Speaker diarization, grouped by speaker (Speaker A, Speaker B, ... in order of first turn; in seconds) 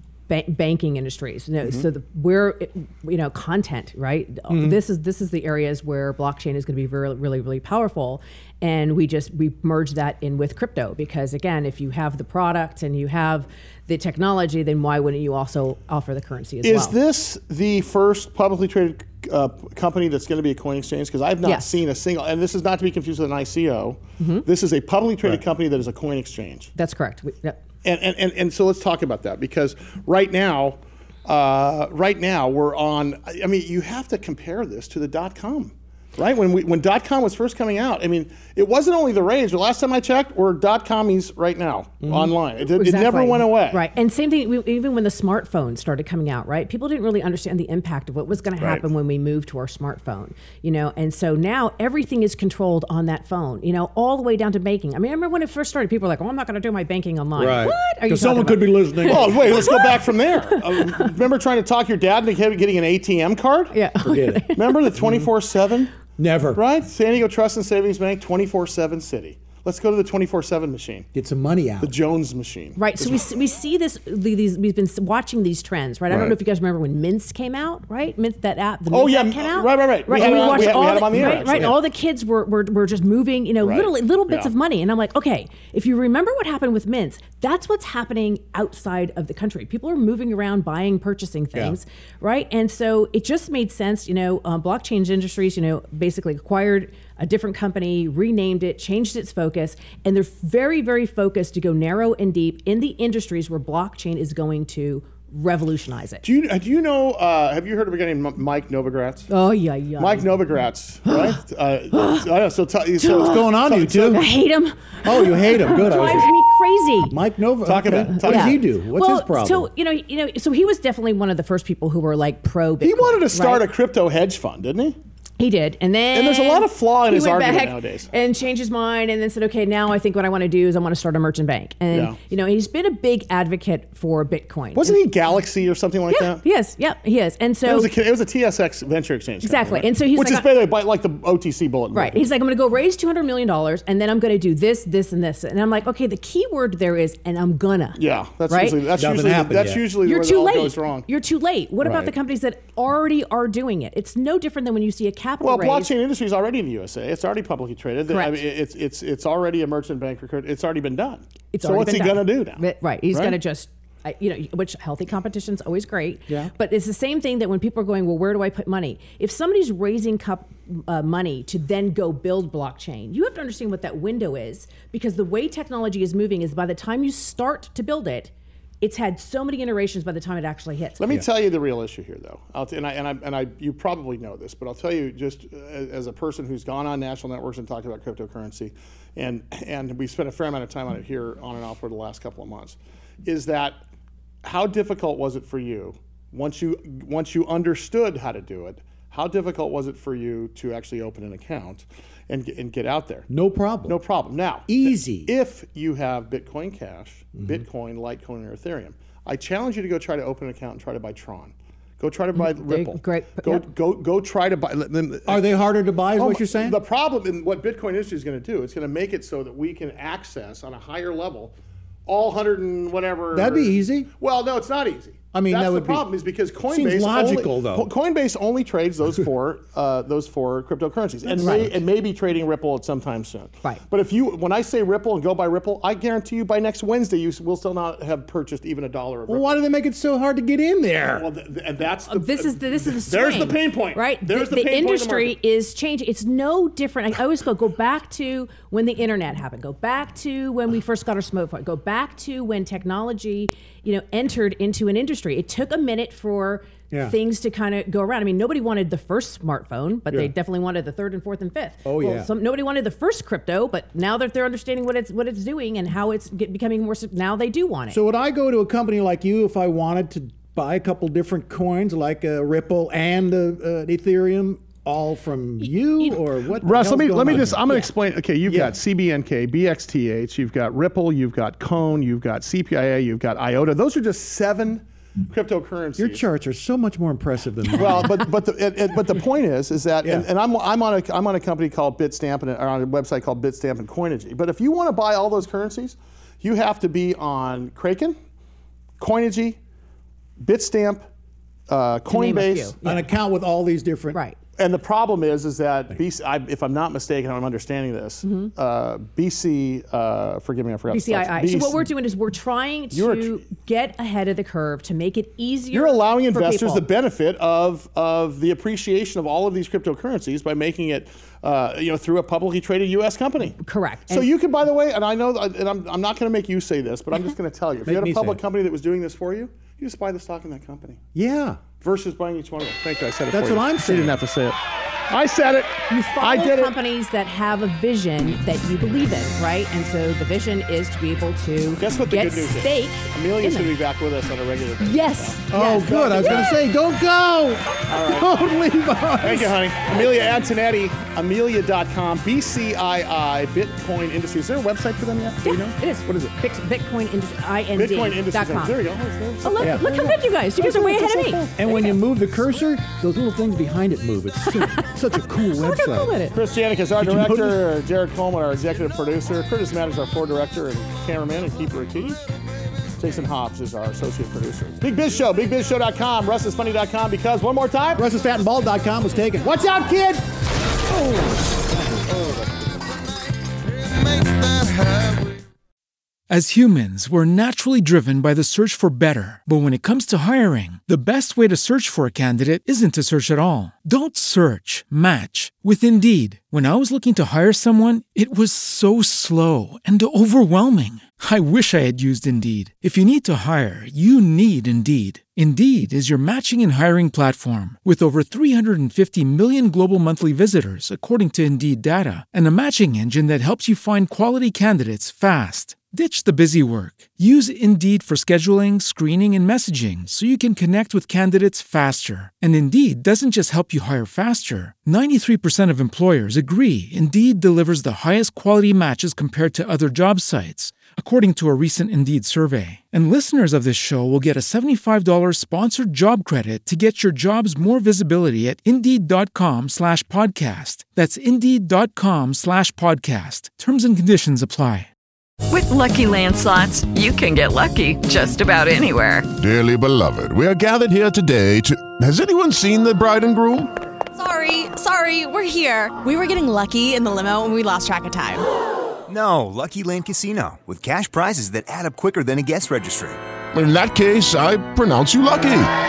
Speaker A: 0.3-16.9, 21.4-21.8, 24.2-24.4, 26.8-27.6, 42.6-61.1, 63.7-64.9, 72.8-106.2, 109.3-110.3, 111.0-111.4, 111.9-112.3, 113.0-117.2, 118.0-123.7, 125.4-135.0, 136.1-137.9, 139.4-140.7, 141.9-148.8, 150.0-155.9, 158.1-158.4, 161.5-181.0, 212.3-213.7, 231.4-231.7, 242.1-268.0, 277.4-277.9, 302.1-303.0, 304.1-304.4, 308.2-308.5, 310.9-316.8, 323.6-324.3, 335.9-343.7, 344.8-346.6, 355.4-358.8, 359.4-361.9, 364.4-366.4
Speaker B: 4.5-4.8, 42.0-42.3, 57.4-59.7, 64.0-65.3, 66.2-66.6, 71.1-72.0, 81.1-81.8, 113.2-114.2, 115.0-116.3, 117.1-119.7, 148.9-149.9, 203.3-204.0, 204.7-205.3, 207.4-207.6, 215.3-216.8, 223.3-224.1, 225.3-226.1, 226.7-227.9, 231.4-231.7, 239.3-241.2, 261.8-262.3, 267.9-277.6, 278.4-278.8, 286.0-288.2, 302.8-304.2, 327.8-328.4, 331.1-331.6, 333.3-334.2, 345.5-349.6, 359.6-359.9, 361.6-366.1, 367.0-367.6, 378.0-380.2
Speaker C: 16.6-26.7, 27.8-43.9, 59.0-63.9, 64.5-65.9, 66.5-71.1, 71.8-73.3, 76.1-76.4, 78.9-81.7, 83.6-84.5, 106.2-109.3, 110.0-114.2, 117.6-118.6, 122.8-125.0, 126.1-128.1, 131.9-132.2, 134.7-136.4, 137.6-142.3, 147.9-151.1, 155.4-163.4, 181.0-193.8, 194.4-203.3, 203.8-215.5, 216.1-221.5, 222.1-239.6, 241.1-245.4, 276.6-286.2, 287.8-298.1, 299.0-299.6, 300.4-301.0, 301.7-302.7, 304.6-311.9, 312.9-313.4, 315.7-323.6, 324.1-331.0, 331.8-334.6, 335.1-336.8, 341.8-346.5, 347.9-348.3, 349.2-356.3, 357.7-361.6, 366.3-372.2, 373.0-378.1
Speaker D: 386.3-444.9
Speaker E: 445.5-449.3
Speaker F: 449.4-453.7, 463.5-465.7
Speaker G: 454.1-458.4
Speaker H: 459.1-463.2